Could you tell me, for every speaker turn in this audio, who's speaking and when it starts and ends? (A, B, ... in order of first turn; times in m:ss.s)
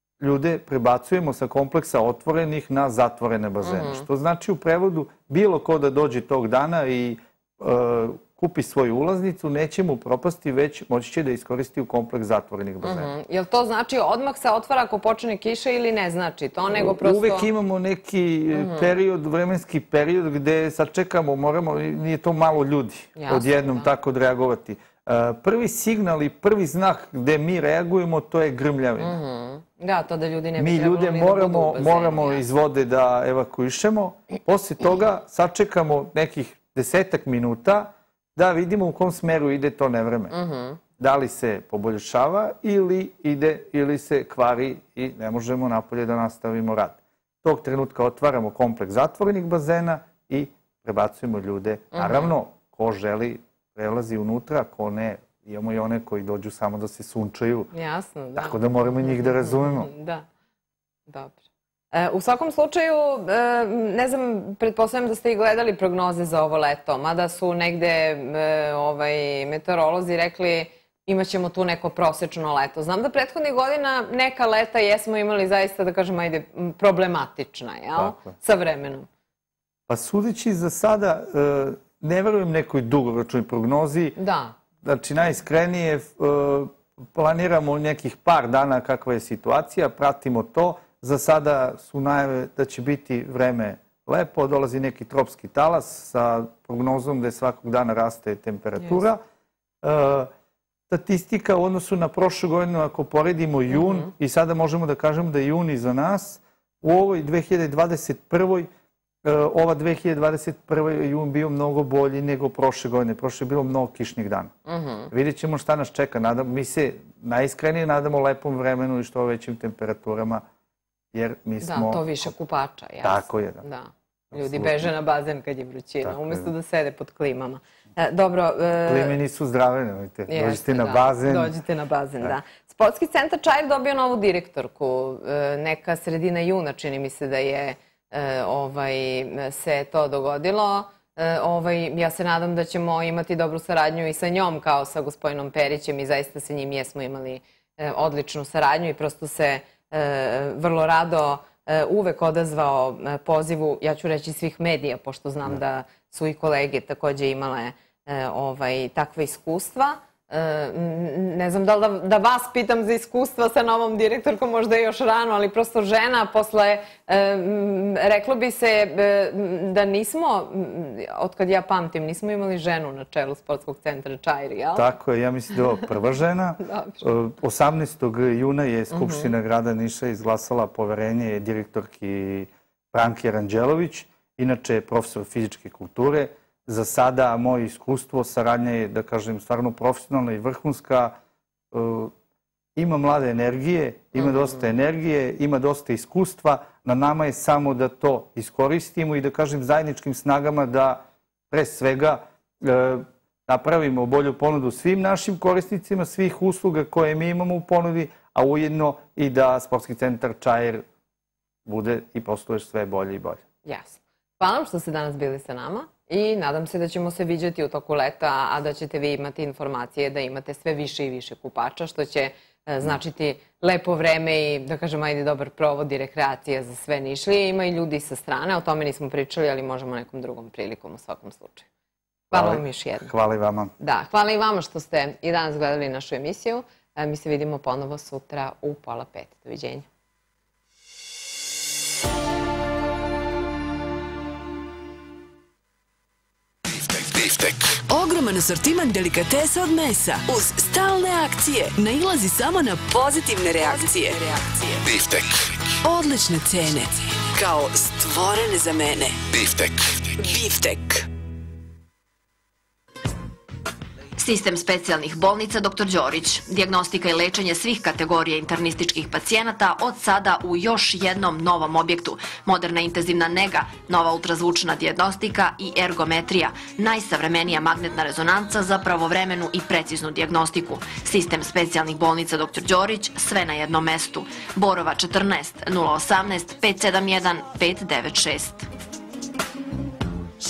0:00.2-0:13.1 A
0:03.6-0:04.0 B
0:12.8-0:17.5 B
0:16.7-0:29.2 A
0:18.5-0:18.9 B
0:23.2-0:23.9 B
0:29.0-0:32.4 B
0:30.6-0:40.3 A
0:40.3-0:40.8 B
0:41.0-0:57.7 A
0:51.9-0:52.3 B
0:57.7-1:00.3 B
0:58.3-0:59.9 A
1:01.1-1:01.4 B
1:01.9-1:19.1 B
1:17.9-1:18.3 A
1:19.9-1:24.2 A
1:24.2-1:24.6 B
1:24.8-1:39.2 A
1:39.8-1:40.3 A
1:40.9-1:48.7 A
1:43.7-1:44.1 B
1:49.2-1:54.5 A
1:54.6-1:55.1 B
1:55.1-2:00.4 A
2:01.1-2:02.3 A
2:01.6-2:09.2 B
2:03.0-2:03.6 A
2:04.3-2:04.9 A
2:06.0-2:06.5 A
2:08.8-2:11.6 A
2:10.3-2:54.9 B
2:54.7-3:11.2 A
2:56.6-2:57.0 B
2:58.9-2:59.3 B
3:11.7-3:12.1 A
3:12.8-3:30.8 A
3:14.2-3:14.6 B
3:31.6-3:33.4 A
3:33.6-3:51.7 B
3:52.3-3:53.7 A
3:52.3-3:53.1 B
3:53.8-3:59.9 B
4:06.7-4:07.7 C
4:07.9-4:14.7 D
4:14.8-4:15.5 C
4:15.8-4:19.4 D
4:19.3-4:20.1 C
4:20.2-4:21.0 D
4:24.2-4:48.6 E